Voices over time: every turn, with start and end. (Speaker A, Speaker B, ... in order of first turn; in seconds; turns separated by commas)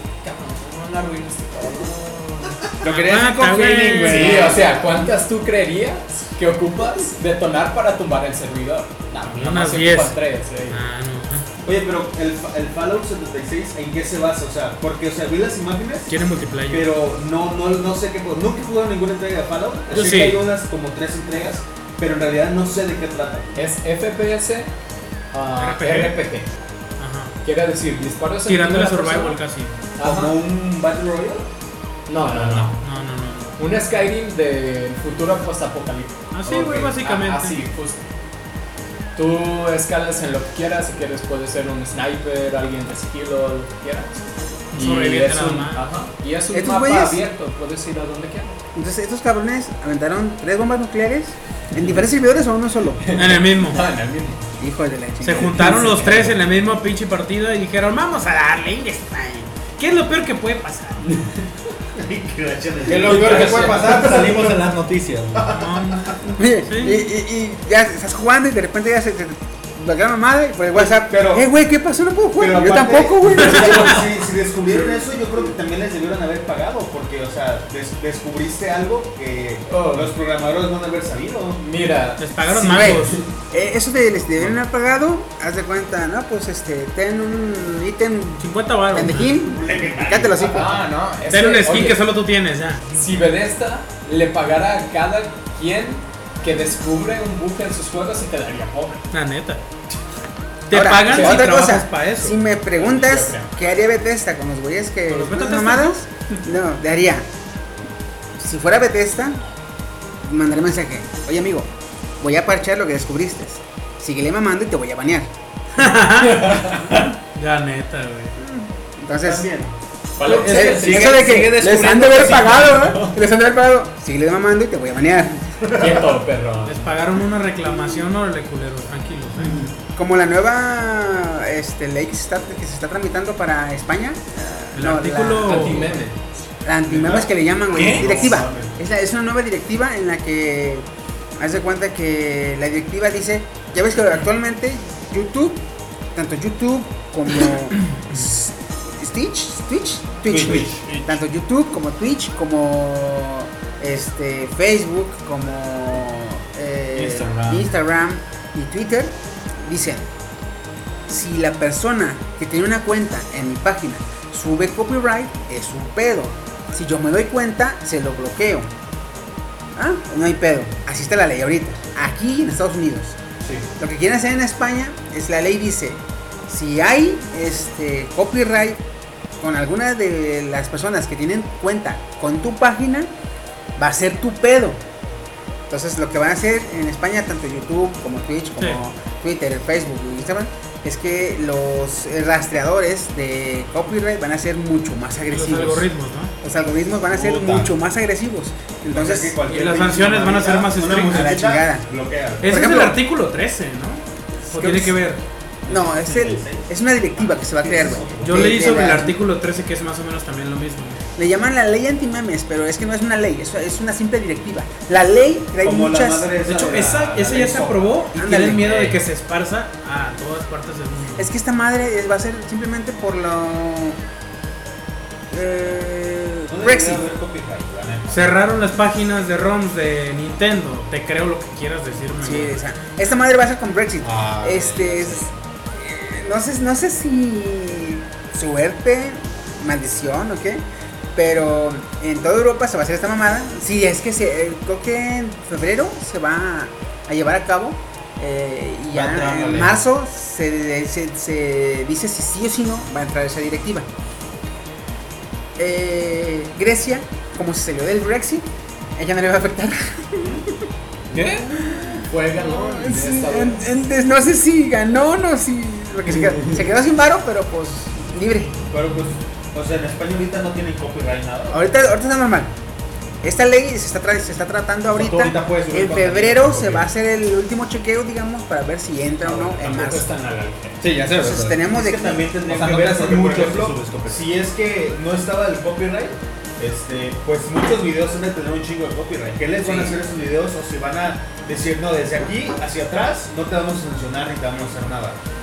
Speaker A: 0.2-2.6, Speaker B: 2.8-4.8, Speaker C: 2.8-4.5, Speaker A: 4.0-10.8, Speaker D: 4.2-4.6, Speaker C: 9.2-10.2, Speaker C: 10.7-11.5, Speaker D: 11.6-16.1, Speaker C: 16.1-16.9, Speaker D: 16.7-23.6, Speaker C: 19.9-20.4, Speaker A: 23.6-24.7, Speaker A: 25.3-26.5, Speaker C: 25.6-26.2, Speaker C: 27.0-27.3, Speaker A: 27.4-29.4, Speaker C: 28.4-29.7, Speaker A: 29.9-30.4, Speaker D: 30.0-31.4, Speaker A: 32.1-32.8, Speaker B: 32.2-32.8, Speaker C: 32.8-33.5, Speaker A: 33.6-38.0, Speaker C: 36.3-37.6, Speaker A: 39.1-48.6, Speaker C: 44.7-45.8, Speaker E: 46.5-47.2, Speaker E: 48.7-53.0, Speaker A: 51.8-52.1, Speaker A: 53.0-54.4, Speaker C: 53.1-53.8, Speaker E: 54.6-55.7, Speaker C: 55.2-61.1, Speaker A: 55.5-56.3, Speaker A: 61.0-61.4, Speaker D: 62.0-64.7, Speaker B: 62.9-65.5, Speaker A: 62.9-64.2, Speaker D: 65.3-66.2, Speaker C: 65.5-67.0, Speaker E: 66.2-74.0, Speaker D: 70.8-71.5, Speaker D: 72.4-81.6, Speaker C: 73.5-74.0, Speaker A: 79.7-80.1, Speaker A: 81.6-83.2, Speaker C: 82.2-83.2, Speaker E: 82.5-90.7, Speaker C: 88.4-89.3, Speaker D: 89.2-90.6, Speaker A: 90.5-92.0, Speaker B: 90.6-91.9, Speaker C: 91.3-92.9, Speaker A: 92.9-99.1, Speaker C: 99.1-99.6, Speaker C: 100.7-102.3, Speaker E: 100.7-107.3, Speaker A: 101.0-101.5, Speaker A: 102.8-103.5, Speaker C: 105.1-106.0, Speaker E: 108.4-109.4, Speaker E: 110.2-115.3, Speaker C: 115.7-118.3, Speaker A: 116.2-117.1, Speaker E: 118.4-119.5, Speaker D: 119.2-119.7, Speaker A: 120.2-121.4, Speaker B: 120.3-123.0, Speaker E: 120.3-125.7, Speaker A: 122.8-123.1, Speaker A: 125.7-126.9, Speaker C: 126.7-129.7, Speaker E: 129.5-135.8, Speaker C: 134.7-135.9, Speaker A: 135.4-136.2, Speaker E: 136.6-140.9, Speaker D: 136.9-138.7, Speaker B: 137.7-138.3, Speaker E: 141.4-145.6, Speaker E: 146.1-160.1, Speaker B: 150.3-151.2, Speaker D: 150.4-150.7, Speaker B: 156.9-157.7, Speaker E: 161.1-168.7, Speaker E: 169.8-173.2, Speaker E: 173.8-178.8, Speaker E: 179.4-183.1, Speaker E: 183.8-184.8, Speaker E: 185.7-195.9, Speaker C: 195.3-196.3, Speaker E: 196.4-199.4, Speaker D: 197.1-197.7, Speaker D: 198.9-202.5, Speaker C: 199.4-201.3, Speaker E: 201.1-201.8, Speaker C: 202.4-205.2, Speaker E: 202.4-203.0, Speaker E: 204.5-205.0, Speaker D: 205.7-208.8, Speaker E: 205.7-209.2, Speaker C: 208.2-211.0, Speaker E: 211.2-216.3, Speaker D: 215.6-218.0, Speaker C: 216.4-221.3, Speaker E: 218.1-218.8, Speaker E: 221.2-224.0, Speaker E: 225.3-227.0, Speaker D: 226.5-228.5, Speaker C: 228.1-232.5, Speaker E: 232.2-240.6, Speaker B: 234.0-235.3, Speaker E: 241.1-253.9, Speaker B: 248.9-249.8, Speaker E: 255.6-260.6, Speaker A: 261.1-261.4, Speaker B: 261.1-261.4, Speaker E: 261.4-268.6, Speaker A: 262.0-263.7, Speaker D: 268.7-271.6, Speaker E: 271.5-272.5, Speaker E: 273.2-280.1, Speaker D: 275.0-276.8, Speaker B: 275.3-276.7, Speaker A: 279.2-280.8, Speaker B: 280.8-281.6, Speaker E: 281.1-282.3, Speaker D: 281.7-295.2, Speaker B: 282.5-284.3